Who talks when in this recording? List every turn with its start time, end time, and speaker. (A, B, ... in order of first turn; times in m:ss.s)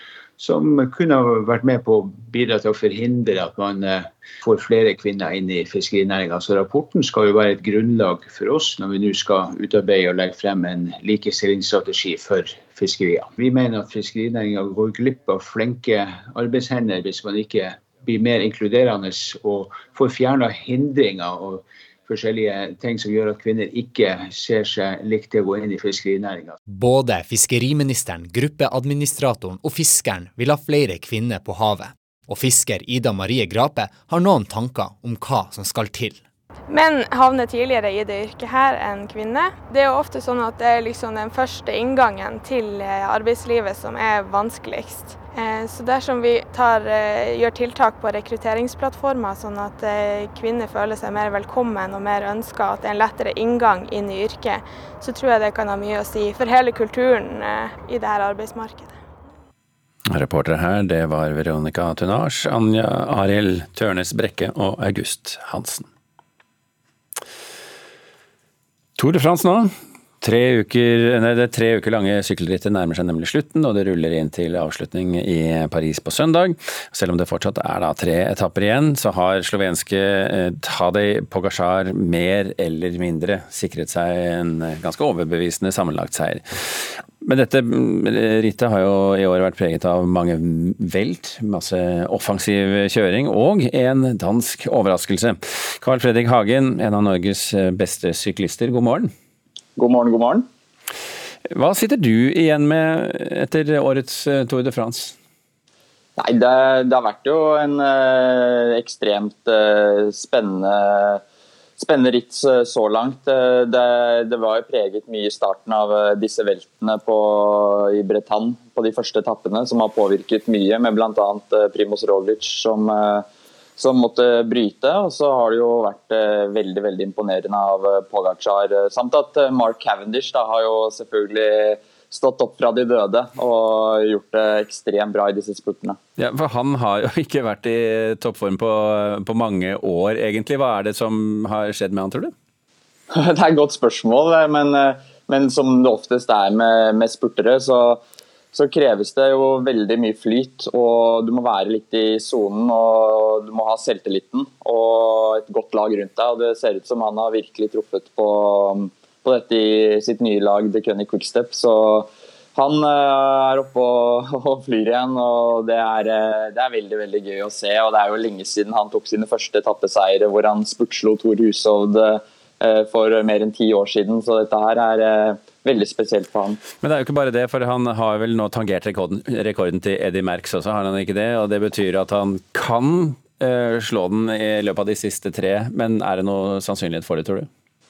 0:00.4-0:26.6 A
0:26.6-0:36.2 B
0:36.7-0:59.0 C
1:00.1-1:05.9 D
1:09.0-1:39.1 D
1:39.8-1:40.4 E
1:41.5-1:45.1 D
1:46.2-1:51.2 E
1:51.8-2:03.2 E
2:03.8-2:16.0 E
2:16.2-2:22.3 D
2:23.1-2:28.0 E
2:28.5-2:56.6 E
2:56.8-3:07.5 D